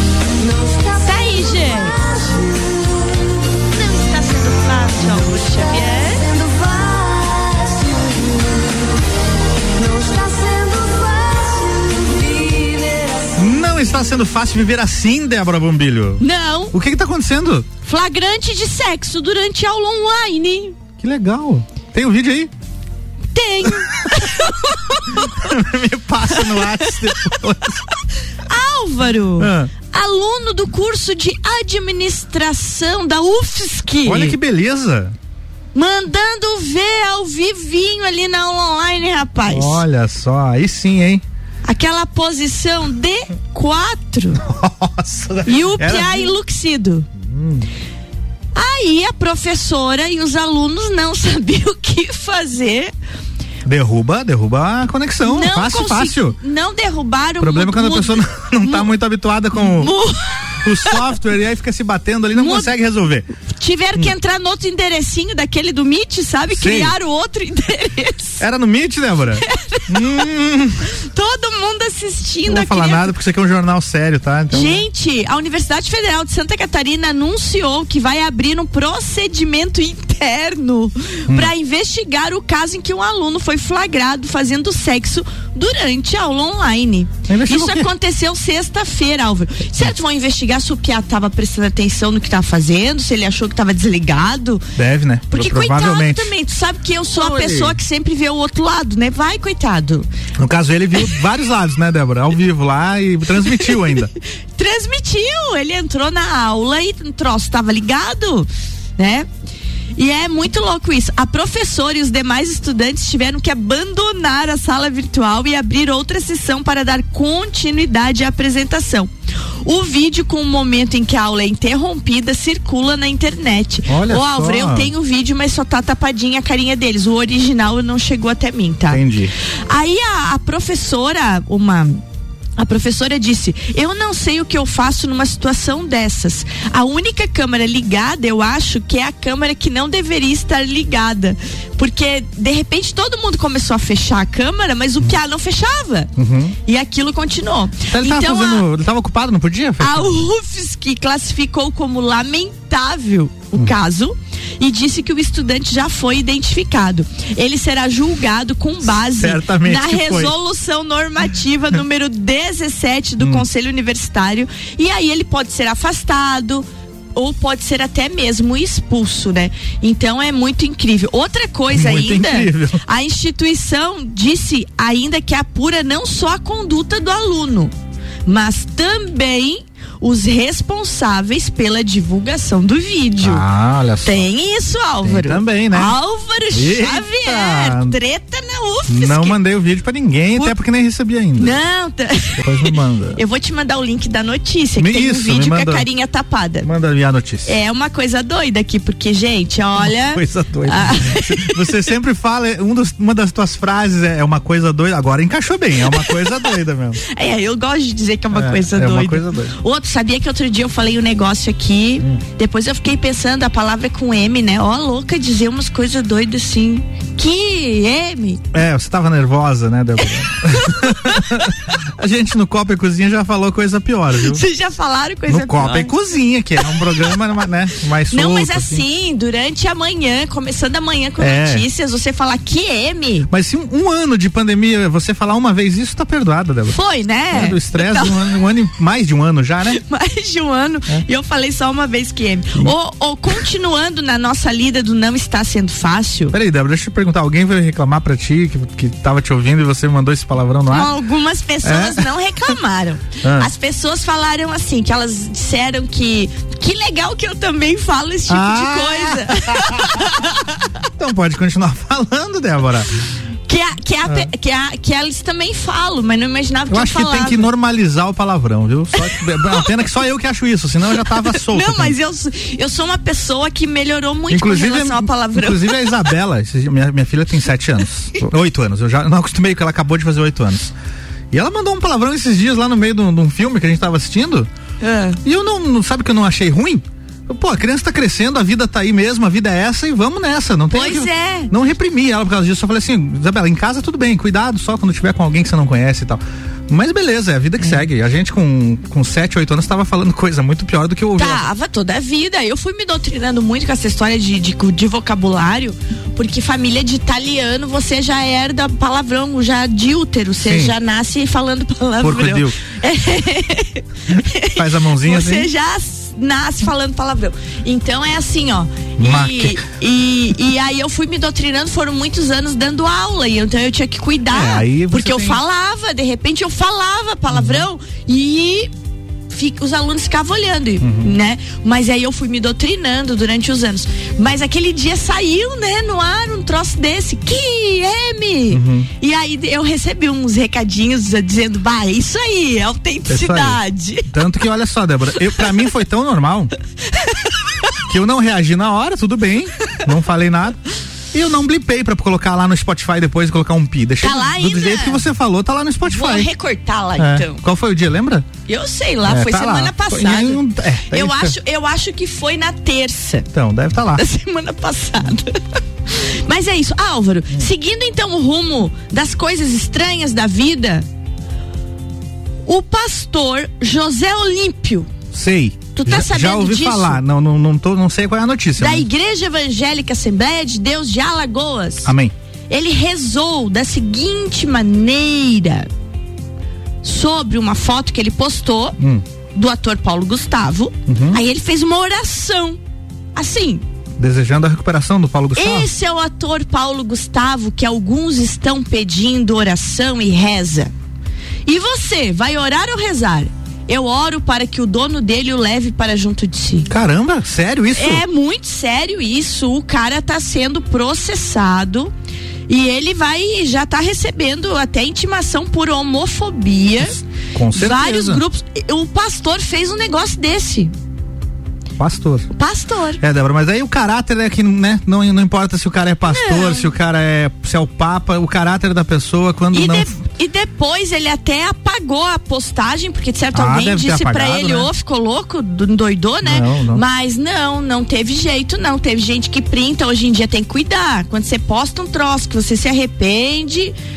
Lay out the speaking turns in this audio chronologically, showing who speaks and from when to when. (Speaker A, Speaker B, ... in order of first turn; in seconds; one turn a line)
Speaker A: 0.4-3.0
Speaker B: 1.0-2.0
Speaker B: 3.7-6.3
Speaker A: 4.9-8.9
Speaker A: 9.8-13.4
Speaker C: 13.4-17.7
Speaker B: 16.2-16.8
Speaker B: 17.8-20.8
Speaker C: 21.0-22.5
Speaker B: 23.3-25.4
Speaker C: 25.3-27.9
Speaker B: 26.3-27.0
Speaker B: 28.5-34.4
Speaker C: 29.4-29.7
Speaker C: 34.0-35.1
Speaker B: 35.7-39.8
Speaker C: 39.5-41.2
Speaker B: 41.6-44.4
Speaker C: 44.4-46.3
Speaker B: 45.5-47.1
Speaker C: 47.2-47.7
Speaker B: 48.5-52.9
Speaker C: 53.7-56.4
Speaker B: 55.2-58.9
Speaker C: 57.4-59.9
Speaker B: 59.6-61.0
Speaker C: 60.6-63.3
Speaker B: 62.3-62.7
Speaker B: 63.4-68.5
Speaker C: 66.5-67.0
Speaker C: 68.4-70.8
Speaker B: 69.5-70.2
Speaker B: 70.9-73.1
Speaker C: 72.5-74.8
Speaker B: 74.5-94.7
Speaker C: 81.3-81.5
Speaker C: 87.3-87.9
Speaker C: 94.8-96.3
Speaker B: 95.3-100.1
Speaker C: 97.2-97.8
Speaker C: 100.4-104.1
Speaker B: 104.6-109.3
Speaker B: 110.0-119.1
Speaker B: 119.6-129.0
Speaker C: 123.9-124.9
Speaker C: 128.9-129.3
Speaker B: 129.7-132.0
Speaker B: 132.6-146.1
Speaker C: 146.2-146.6
Speaker B: 146.7-148.7
Speaker C: 147.9-150.2
Speaker B: 149.8-177.7
Speaker C: 159.0-160.3
Speaker C: 163.2-163.4
Speaker C: 171.7-172.8
Speaker B: 178.3-183.4
Speaker C: 183.2-184.3
Speaker B: 184.0-189.4
Speaker C: 185.0-186.0
Speaker C: 186.5-187.9
Speaker C: 188.9-191.6
Speaker B: 191.4-196.7
Speaker C: 192.4-193.2
Speaker C: 194.8-195.9
Speaker C: 196.6-197.5
Speaker B: 197.5-201.8
Speaker C: 199.8-207.0
Speaker B: 206.0-206.4
Speaker B: 207.0-218.4
Speaker C: 208.3-209.6
Speaker C: 218.5-224.4
Speaker B: 220.5-221.4
Speaker B: 224.2-225.9
Speaker C: 225.3-228.8
Speaker B: 226.7-227.1
Speaker B: 228.1-233.3
Speaker C: 231.2-231.7
Speaker C: 233.3-236.8
Speaker B: 236.7-238.2
Speaker C: 237.3-239.8
Speaker B: 239.7-246.3
Speaker C: 246.3-250.9
Speaker B: 250.7-260.6
Speaker C: 251.6-252.1
Speaker C: 253.2-253.5
Speaker C: 258.3-260.2
Speaker C: 261.0-262.9
Speaker B: 263.5-267.5
Speaker C: 266.7-272.0
Speaker B: 269.1-269.6
Speaker B: 271.2-276.1
Speaker C: 274.3-280.7
Speaker C: 281.3-284.5
Speaker B: 284.8-285.2
Speaker C: 285.2-301.4
Speaker B: 290.7-291.5
Speaker B: 301.2-328.7
Speaker C: 310.4-310.7
Speaker C: 312.0-312.6
Speaker C: 314.5-315.5
Speaker C: 319.0-319.6
Speaker C: 324.3-325.4
Speaker C: 327.3-327.6
Speaker B: 329.3-344.2
Speaker C: 330.8-331.2
Speaker C: 338.5-338.9
Speaker C: 343.1-346.5
Speaker C: 347.9-350.6
Speaker C: 351.1-356.3
Speaker B: 354.0-355.0
Speaker B: 355.9-357.4
Speaker C: 357.0-358.3
Speaker B: 358.5-363.3
Speaker C: 359.0-361.4
Speaker C: 363.3-364.0
Speaker B: 363.9-370.9
Speaker B: 372.4-374.9
Speaker C: 375.1-378.9
Speaker B: 375.8-377.0
Speaker B: 378.6-381.9
Speaker C: 381.8-382.1
Speaker B: 382.5-385.7
Speaker B: 386.8-388.8
Speaker C: 388.8-389.0
Speaker B: 389.4-392.6
Speaker C: 390.9-391.2
Speaker B: 393.1-393.6
Speaker C: 394.0-395.7
Speaker B: 395.4-400.7
Speaker B: 401.5-406.7
Speaker C: 406.7-408.0
Speaker B: 407.7-411.9
Speaker B: 412.5-417.0
Speaker C: 417.3-418.2
Speaker B: 417.5-420.7
Speaker C: 421.8-422.3
Speaker B: 422.4-423.0
Speaker C: 423.0-429.9
Speaker B: 426.1-426.7
Speaker B: 429.5-443.8
Speaker C: 433.3-434.7
Speaker C: 436.2-436.8